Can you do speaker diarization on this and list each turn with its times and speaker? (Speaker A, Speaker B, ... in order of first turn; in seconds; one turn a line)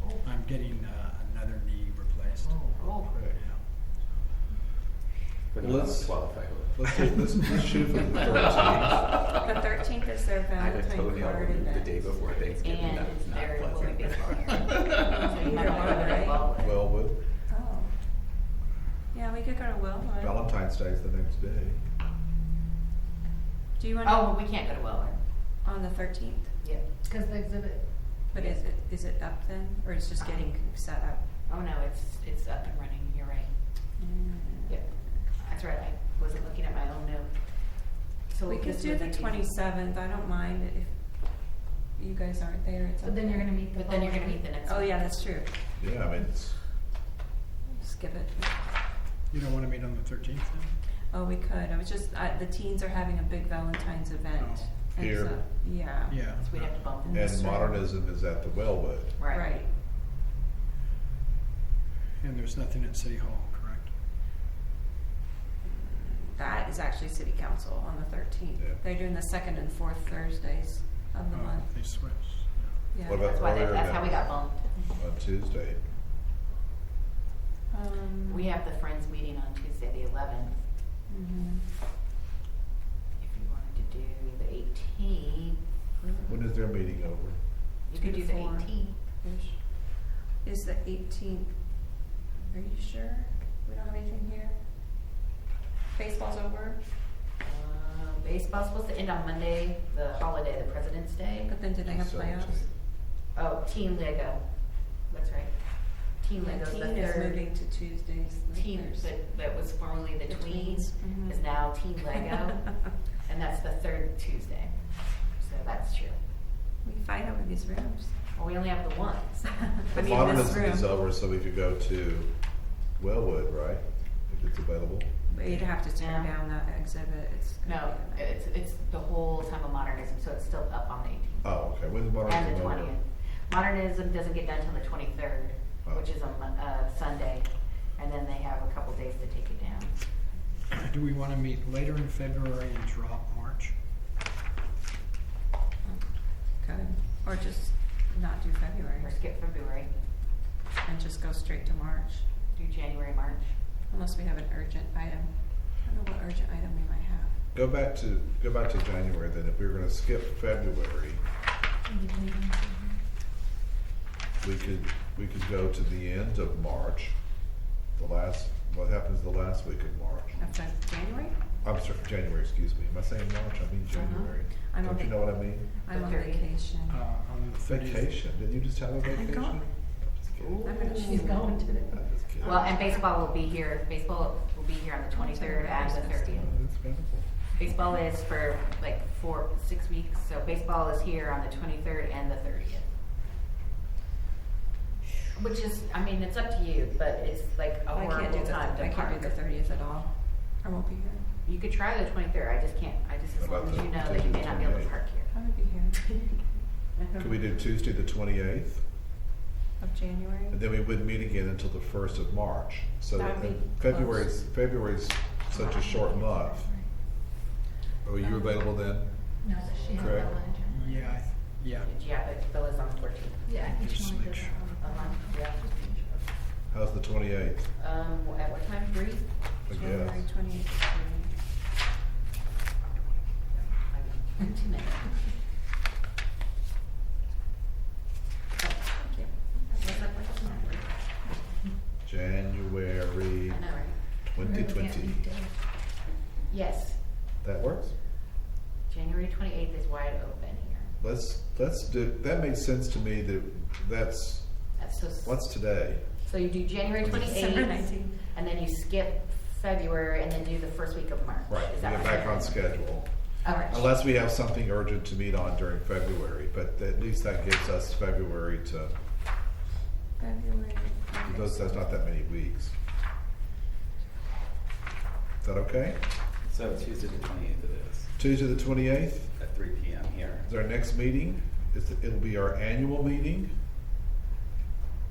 Speaker A: 0.2-3.9
Speaker B: 2.6-3.4
Speaker C: 2.8-3.1
Speaker D: 5.5-7.3
Speaker B: 5.6-9.2
Speaker E: 9.3-12.2
Speaker D: 10.6-15.1
Speaker C: 12.6-16.8
Speaker E: 15.2-16.5
Speaker B: 16.6-17.2
Speaker E: 17.5-18.0
Speaker E: 19.1-20.4
Speaker B: 20.2-21.8
Speaker E: 23.8-24.4
Speaker C: 24.0-25.2
Speaker E: 25.6-26.6
Speaker F: 27.0-27.8
Speaker E: 28.3-31.2
Speaker C: 28.3-28.6
Speaker C: 30.2-30.5
Speaker C: 31.5-33.5
Speaker E: 34.0-34.8
Speaker C: 35.4-37.5
Speaker C: 38.3-39.5
Speaker E: 38.5-43.6
Speaker F: 43.0-44.4
Speaker C: 43.7-45.2
Speaker E: 44.6-45.6
Speaker B: 45.8-46.6
Speaker E: 47.7-48.5
Speaker A: 49.3-50.7
Speaker E: 51.1-56.2
Speaker A: 54.4-54.8
Speaker B: 55.0-55.4
Speaker A: 56.1-57.0
Speaker C: 56.4-57.4
Speaker E: 57.0-57.8
Speaker B: 57.1-59.1
Speaker C: 59.2-59.5
Speaker E: 59.3-59.7
Speaker A: 62.2-63.9
Speaker E: 65.7-71.7
Speaker A: 71.3-72.8
Speaker E: 72.9-73.2
Speaker B: 73.0-74.4
Speaker C: 73.0-74.7
Speaker B: 75.0-75.8
Speaker E: 77.7-78.5
Speaker C: 78.3-80.6
Speaker E: 81.1-81.6
Speaker C: 83.2-85.6
Speaker B: 86.3-87.4
Speaker C: 87.9-89.0
Speaker E: 88.0-91.9
Speaker E: 92.5-94.6
Speaker E: 95.9-96.8
Speaker C: 97.4-101.5
Speaker E: 101.4-102.7
Speaker B: 101.8-102.7
Speaker C: 103.3-104.5
Speaker C: 105.0-107.4
Speaker E: 106.3-109.1
Speaker C: 108.5-112.7
Speaker E: 110.3-111.7
Speaker C: 113.2-116.2
Speaker E: 116.8-118.2
Speaker C: 118.3-120.6
Speaker E: 119.6-120.9
Speaker B: 119.9-125.1
Speaker E: 125.3-128.4
Speaker C: 126.0-126.3
Speaker C: 127.7-131.6
Speaker B: 131.4-132.9
Speaker C: 132.2-140.0
Speaker A: 140.7-143.8
Speaker E: 145.8-149.2
Speaker C: 149.0-149.9
Speaker E: 150.8-152.2
Speaker C: 152.5-153.5
Speaker E: 153.9-157.4
Speaker B: 157.5-161.2
Speaker F: 161.8-163.0
Speaker B: 164.4-167.2
Speaker B: 167.9-170.5
Speaker E: 170.4-171.4
Speaker B: 171.6-175.7
Speaker E: 173.9-177.0
Speaker C: 173.9-174.3
Speaker C: 175.9-176.5
Speaker A: 176.9-178.2
Speaker B: 177.7-180.7
Speaker E: 179.1-179.7
Speaker C: 180.4-181.3
Speaker E: 180.6-181.6
Speaker F: 180.9-182.0
Speaker B: 181.9-182.8
Speaker C: 182.4-186.6
Speaker E: 185.1-186.5
Speaker B: 186.3-187.3
Speaker C: 187.6-192.9
Speaker C: 195.3-199.5
Speaker E: 197.9-201.3
Speaker C: 201.4-205.3
Speaker B: 203.4-204.9
Speaker E: 205.3-206.1
Speaker B: 207.2-208.9
Speaker E: 209.8-210.6
Speaker B: 210.5-216.7
Speaker E: 213.1-214.4
Speaker F: 216.2-216.9
Speaker B: 218.0-220.3
Speaker F: 219.4-221.2
Speaker C: 219.7-220.4
Speaker A: 220.7-221.9
Speaker C: 221.8-223.5
Speaker F: 223.5-226.2
Speaker A: 223.6-224.8
Speaker C: 224.8-225.6
Speaker B: 226.7-227.7
Speaker C: 227.8-229.3
Speaker B: 229.7-230.3
Speaker E: 229.7-231.3
Speaker C: 233.5-235.3
Speaker C: 238.6-241.0
Speaker E: 239.0-239.3
Speaker B: 242.0-243.7
Speaker C: 243.5-244.0
Speaker B: 244.2-245.3
Speaker F: 244.4-245.5
Speaker C: 246.5-247.0
Speaker B: 247.4-247.9
Speaker C: 248.9-250.9
Speaker B: 251.0-256.2
Speaker C: 254.8-255.4
Speaker C: 256.2-262.7
Speaker E: 257.0-258.2
Speaker B: 261.5-263.1
Speaker C: 263.4-263.9
Speaker E: 263.4-263.7
Speaker B: 263.7-268.9
Speaker E: 270.2-272.0
Speaker B: 271.2-272.7
Speaker B: 275.4-276.0
Speaker D: 276.4-278.1
Speaker B: 278.2-279.4
Speaker D: 279.4-280.5
Speaker B: 280.4-283.5